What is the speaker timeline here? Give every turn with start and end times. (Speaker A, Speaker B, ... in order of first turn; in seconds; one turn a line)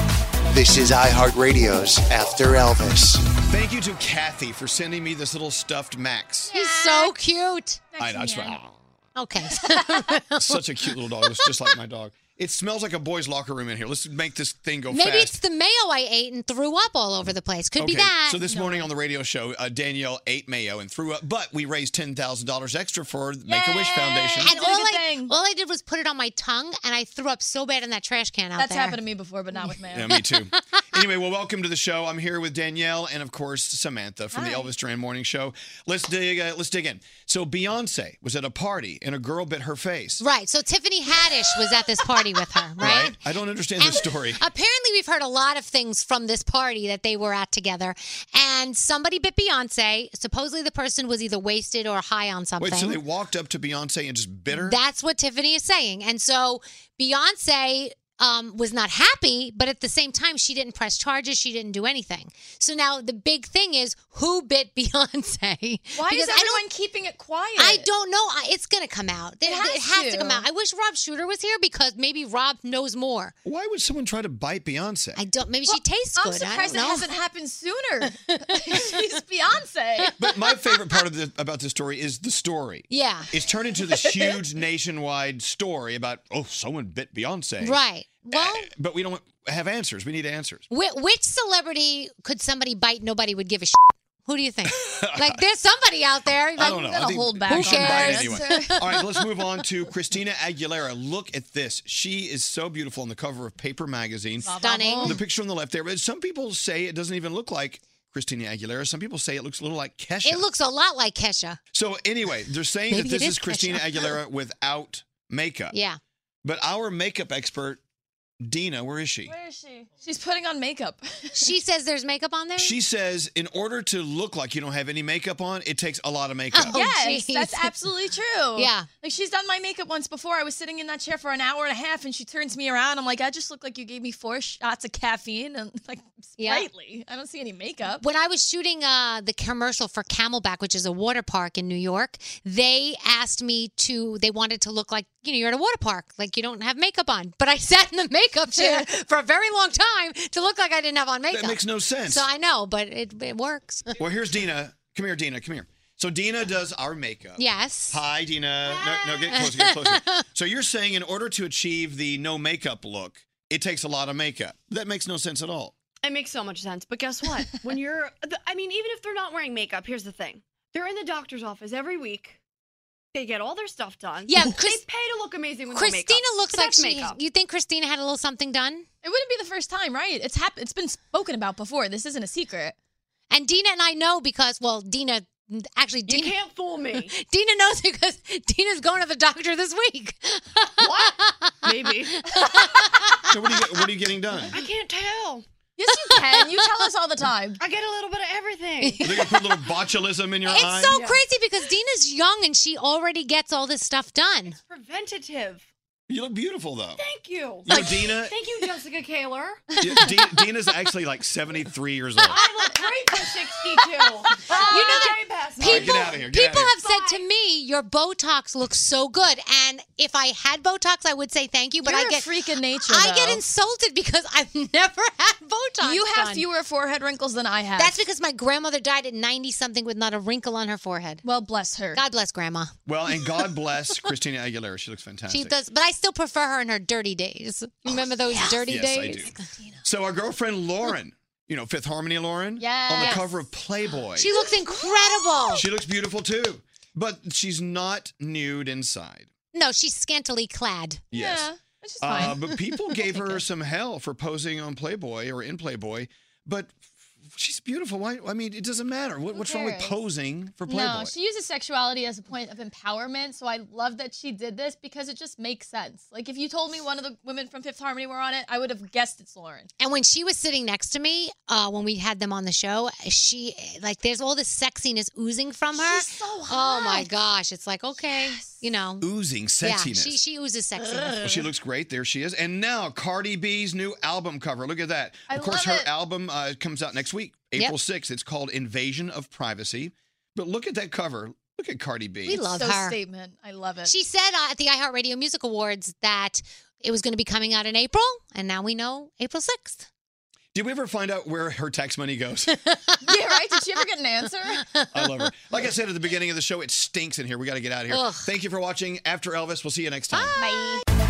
Speaker A: 0.5-3.2
Speaker B: 3.5-6.5
Speaker C: 6.5-7.2
Speaker D: 6.5-7.8
Speaker C: 7.9-8.6
Speaker B: 8.0-8.8
Speaker D: 9.2-11.5
Speaker C: 9.6-10.0
Speaker B: 10.4-15.4
Speaker D: 14.9-18.4
Speaker B: 17.8-24.6
Speaker C: 18.5-18.9
Speaker C: 23.4-25.3
Speaker D: 24.4-29.0
Speaker C: 28.6-30.2
Speaker B: 29.9-40.2
Speaker D: 30.1-30.6
Speaker C: 34.4-34.7
Speaker D: 40.2-43.2
Speaker B: 42.8-44.4
Speaker D: 43.8-53.0
Speaker B: 52.6-54.8
Speaker D: 54.5-66.6
Speaker C: 66.0-67.9
Speaker D: 67.6-73.3
Speaker C: 69.4-70.5
Speaker B: 73.5-75.2
Speaker D: 75.2-77.1
Speaker C: 75.7-80.2
Speaker B: 80.2-90.7
Speaker D: 82.9-83.3
Speaker C: 84.1-84.4
Speaker D: 87.6-88.7
Speaker D: 90.7-99.1
Speaker B: 94.7-95.4
Speaker B: 96.6-110.5
Speaker C: 96.8-99.0
Speaker C: 104.4-105.2
Speaker D: 104.5-105.2
Speaker D: 110.2-111.6
Speaker B: 111.7-115.7
Speaker D: 113.0-113.8
Speaker C: 113.0-113.8
Speaker D: 115.7-116.0
Speaker B: 116.4-117.8
Speaker B: 118.4-119.3
Speaker C: 119.3-121.5
Speaker D: 121.4-122.8
Speaker B: 122.6-126.8
Speaker D: 126.5-127.7
Speaker C: 126.6-138.0
Speaker D: 128.6-128.9
Speaker D: 136.4-136.7
Speaker D: 138.0-154.0
Speaker C: 148.5-148.9
Speaker B: 151.3-152.3
Speaker B: 154.0-165.7
Speaker D: 157.4-158.0
Speaker D: 158.8-160.2
Speaker E: 166.0-172.4
Speaker E: 173.1-177.2
Speaker D: 174.3-174.8
Speaker D: 175.7-178.9
Speaker C: 179.0-182.8
Speaker D: 183.3-186.4
Speaker E: 186.1-187.1
Speaker D: 186.9-191.5
Speaker E: 190.8-192.5
Speaker D: 192.2-193.4
Speaker B: 193.2-194.6
Speaker E: 194.4-195.4
Speaker C: 195.8-197.6
Speaker D: 196.1-196.6
Speaker E: 197.6-199.0
Speaker D: 198.8-199.7
Speaker B: 199.0-201.0
Speaker D: 200.5-204.6
Speaker E: 200.9-201.2
Speaker E: 204.6-205.7
Speaker B: 206.1-207.0
Speaker E: 207.0-209.7
Speaker B: 207.7-208.4
Speaker B: 209.8-212.4
Speaker C: 212.3-212.8
Speaker E: 212.3-216.2
Speaker C: 214.3-215.1
Speaker D: 214.6-222.3
Speaker B: 215.6-216.7
Speaker E: 216.8-217.2
Speaker C: 221.8-223.4
Speaker D: 222.8-226.4
Speaker C: 225.8-228.0
Speaker D: 227.8-231.2
Speaker C: 231.2-232.0
Speaker D: 231.9-233.3
Speaker B: 232.9-235.5
Speaker D: 235.3-239.4
Speaker B: 238.7-244.3
Speaker C: 242.6-243.4
Speaker D: 243.0-243.2
Speaker D: 244.2-245.7
Speaker C: 244.3-245.5
Speaker B: 245.6-249.3
Speaker D: 249.5-251.0
Speaker B: 251.1-251.5
Speaker C: 251.1-252.4
Speaker B: 252.0-261.1
Speaker D: 252.5-253.4
Speaker C: 259.4-259.9
Speaker C: 260.7-269.7
Speaker D: 269.8-279.1
Speaker C: 275.7-277.1
Speaker C: 278.1-278.6
Speaker B: 279.0-280.2
Speaker D: 279.6-281.4
Speaker B: 281.1-292.4
Speaker C: 285.3-285.9
Speaker D: 292.3-293.0
Speaker C: 292.3-293.9
Speaker D: 293.9-299.9
Speaker B: 300.5-302.7
Speaker C: 303.0-304.7
Speaker D: 304.8-305.1
Speaker B: 304.9-310.4
Speaker D: 307.9-308.3
Speaker D: 310.1-310.8
Speaker C: 310.4-310.9